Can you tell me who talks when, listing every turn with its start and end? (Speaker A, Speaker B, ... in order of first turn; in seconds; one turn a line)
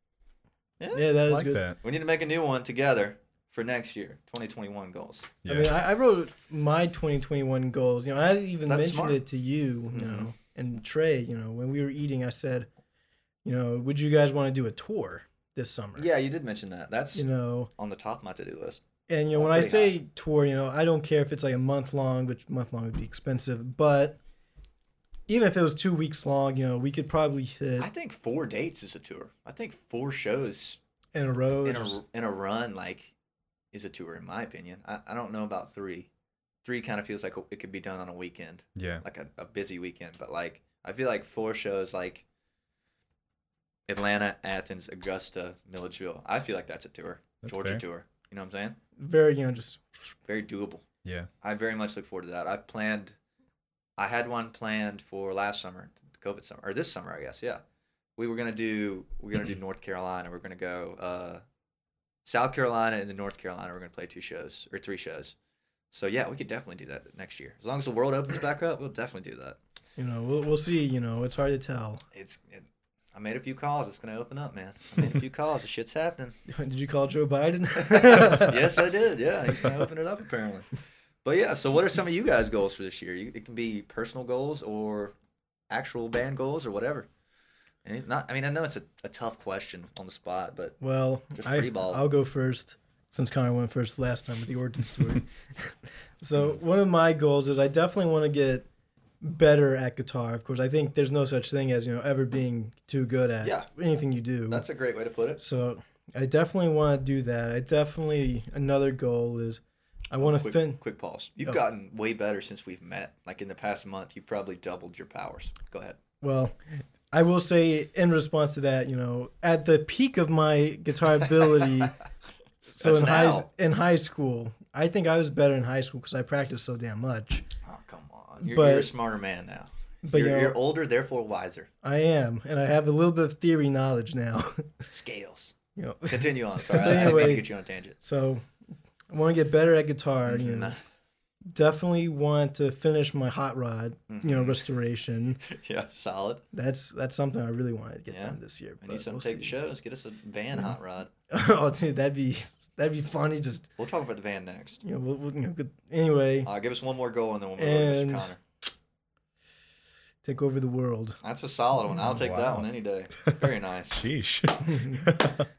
Speaker A: 0.8-1.1
Speaker B: 0.9-1.6
Speaker C: 1.3-1.8
Speaker A: 1.8-5.4
Speaker C: 5.4-5.7
Speaker B: 5.5-12.7
Speaker A: 8.7-9.2
Speaker A: 9.9-10.3
Speaker B: 13.4-16.1
Speaker A: 16.0-17.3
Speaker B: 17.1-17.7
Speaker A: 17.8-18.8
Speaker B: 19.1-24.2
Speaker A: 19.3-19.9
Speaker B: 25.3-27.9
Speaker A: 27.8-30.8
Speaker B: 31.1-32.0
Speaker A: 31.6-33.1
Speaker A: 33.7-36.1
Speaker A: 36.6-42.2
Speaker C: 38.8-39.0
Speaker A: 43.9-48.8
Speaker C: 47.4-47.8
Speaker B: 49.0-50.1
Speaker A: 50.3-50.9
Speaker C: 51.0-51.3
Speaker A: 51.4-53.2
Speaker A: 54.0-57.6
Speaker A: 58.2-61.4
Speaker A: 62.2-65.3
Speaker A: 65.9-69.6
Speaker B: 70.0-72.0
Speaker A: 72.1-76.3
Speaker B: 76.5-78.8
Speaker A: 77.8-80.7
Speaker B: 79.6-79.9
Speaker A: 81.2-85.1
Speaker A: 85.7-87.1
Speaker A: 87.8-90.8
Speaker B: 90.8-98.7
Speaker A: 91.3-92.0
Speaker B: 99.2-104.7
Speaker A: 103.4-103.7
Speaker A: 104.5-105.4
Speaker B: 105.4-110.8
Speaker A: 110.2-116.0
Speaker B: 116.2-116.6
Speaker B: 117.1-122.0
Speaker A: 121.5-121.9
Speaker B: 122.8-127.4
Speaker A: 122.8-123.5
Speaker A: 127.6-131.7
Speaker B: 128.4-128.9
Speaker B: 130.1-130.6
Speaker B: 131.8-134.7
Speaker A: 134.9-135.5
Speaker B: 135.8-137.5
Speaker A: 136.1-138.0
Speaker B: 138.0-138.4
Speaker B: 139.1-140.8
Speaker A: 140.3-140.8
Speaker B: 141.5-145.4
Speaker A: 144.1-144.7
Speaker A: 145.4-146.4
Speaker B: 146.5-149.6
Speaker A: 148.1-151.1
Speaker B: 151.3-153.7
Speaker A: 153.8-154.8
Speaker B: 154.8-156.5
Speaker A: 156.4-158.4
Speaker B: 157.6-158.3
Speaker B: 160.2-161.2
Speaker A: 161.2-164.1
Speaker C: 162.1-162.7
Speaker C: 163.2-165.5
Speaker B: 164.7-165.1